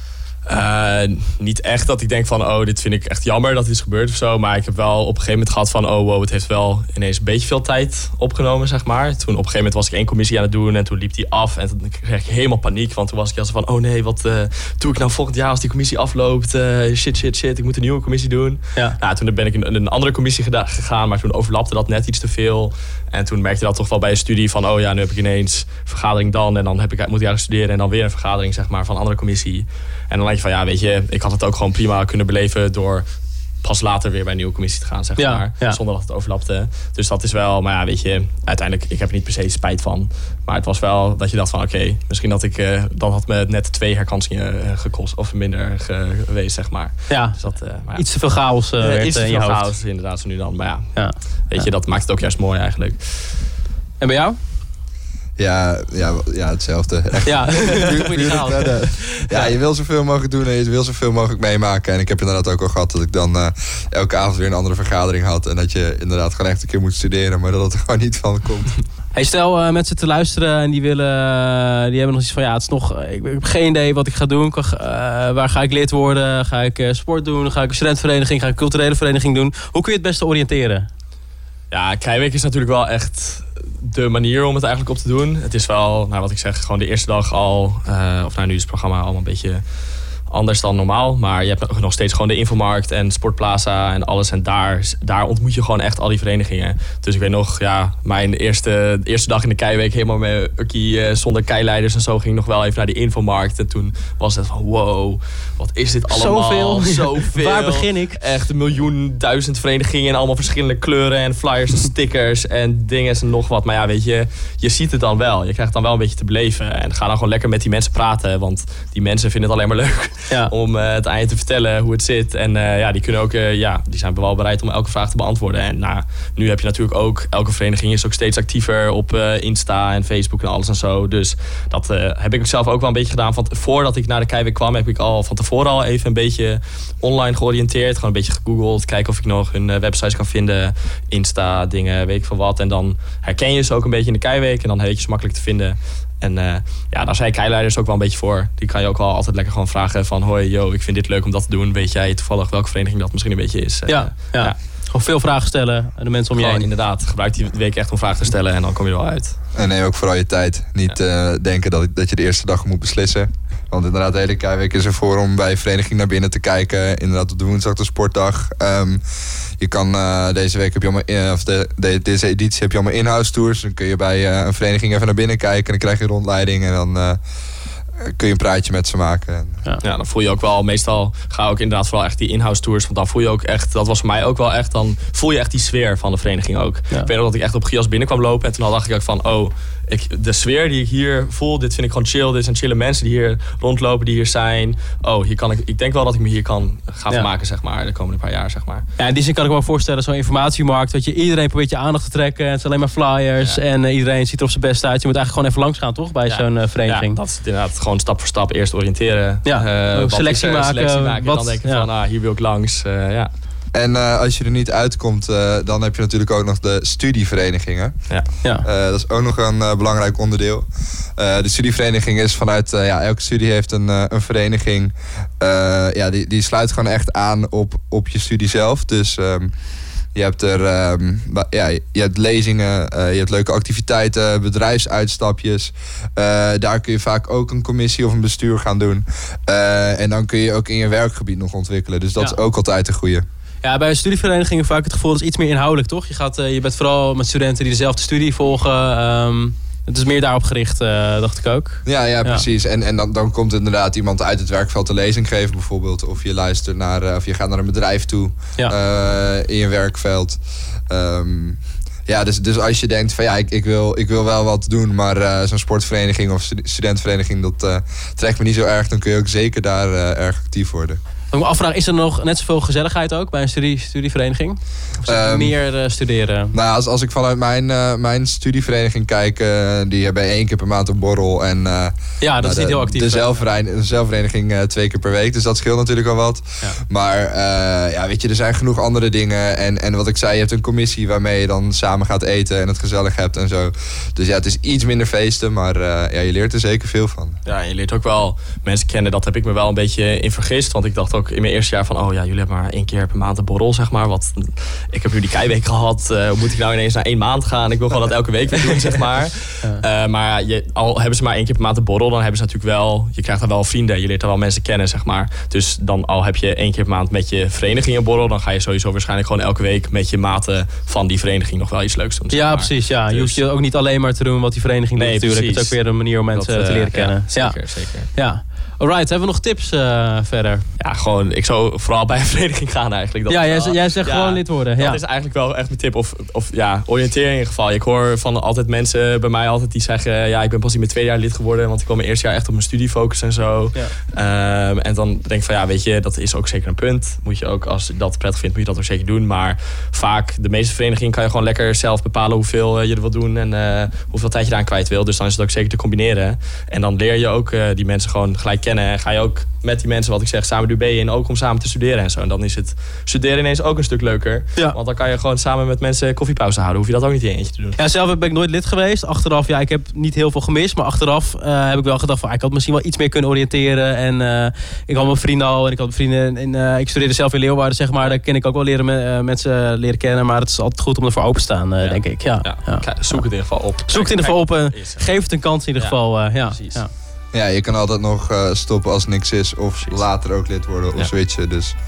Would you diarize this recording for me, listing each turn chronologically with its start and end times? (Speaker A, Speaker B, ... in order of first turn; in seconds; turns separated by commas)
Speaker A: 0.5-33.1, Speaker A: 33.6-53.5, Speaker B: 35.2-35.8, Speaker B: 47.1-49.7, Speaker B: 51.0-51.7, Speaker B: 54.0-54.4, Speaker C: 55.4-68.8, Speaker B: 57.3-59.5, Speaker B: 69.1-80.9, Speaker A: 81.7-89.6, Speaker A: 90.3-154.6, Speaker B: 106.1-108.2, Speaker B: 153.9-156.7, Speaker A: 156.4-159.4, Speaker C: 159.6-169.0, Speaker C: 169.6-177.2, Speaker C: 178.0-179.6, Speaker A: 179.8-198.9, Speaker B: 199.0-207.2, Speaker A: 206.3-213.3, Speaker B: 209.4-211.9, Speaker C: 213.7-218.1, Speaker C: 218.6-229.5, Speaker C: 230.2-243.2, Speaker B: 243.6-252.4, Speaker C: 251.9-271.0, Speaker B: 271.3-276.5, Speaker C: 275.1-275.5, Speaker C: 276.5-297.4, Speaker B: 282.2-283.3, Speaker A: 297.5-323.4, Speaker B: 322.3-330.7, Speaker A: 325.0-328.1, Speaker A: 330.8-367.8, Speaker B: 333.3-335.0, Speaker B: 367.8-386.9, Speaker A: 381.8-386.8, Speaker C: 387.3-391.8